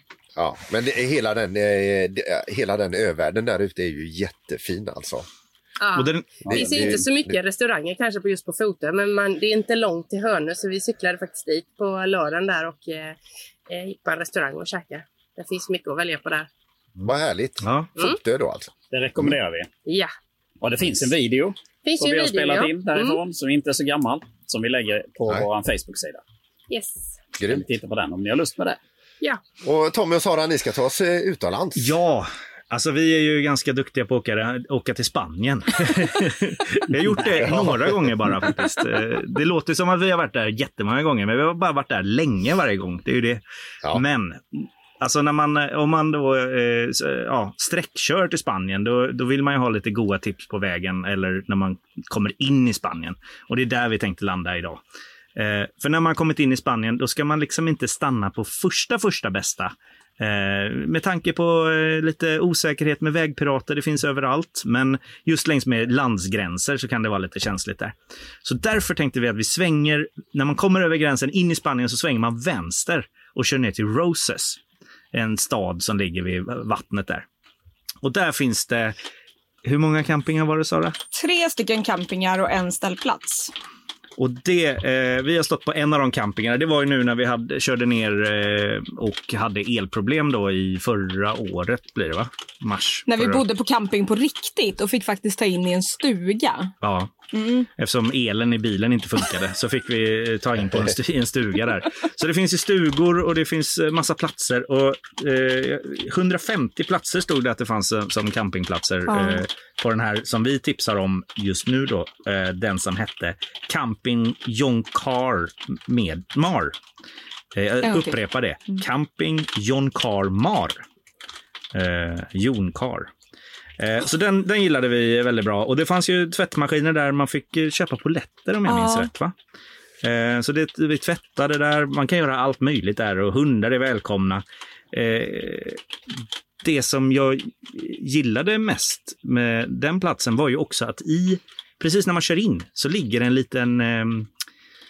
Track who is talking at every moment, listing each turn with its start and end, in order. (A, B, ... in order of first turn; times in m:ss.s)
0:00.4-0:05.3 A
0:05.8-0:16.5 B
0:06.0-0:06.8 C
0:06.4-0:07.4 A
0:17.0-0:18.7 A
0:17.6-0:17.9 C
0:18.9-0:19.7 D
0:19.9-0:20.1 B
0:20.6-0:26.2 D
0:21.8-0:23.2 B
0:26.7-0:27.2 B
0:27.4-0:27.7 A
0:27.5-0:28.8 D
0:29.6-0:32.0 A
0:31.8-0:54.8 C
0:37.3-0:38.1 A
0:55.4-1:14.6 C
1:15.1-1:17.3 C
1:18.0-1:19.0 C
1:19.6-1:21.0 C
1:21.1-1:23.5 E
1:24.2-1:33.4 C
1:33.1-1:36.7 E
1:36.8-1:37.1 C
1:37.3-1:37.7 E
1:37.8-1:56.8 C
1:49.1-1:49.4 E
1:57.6-2:00.8 C
1:57.8-1:58.8 E
2:01.8-2:03.1 C
2:03.8-2:09.3 C
2:08.7-2:09.1 E
2:10.0-2:15.8 C
2:16.6-2:24.3 C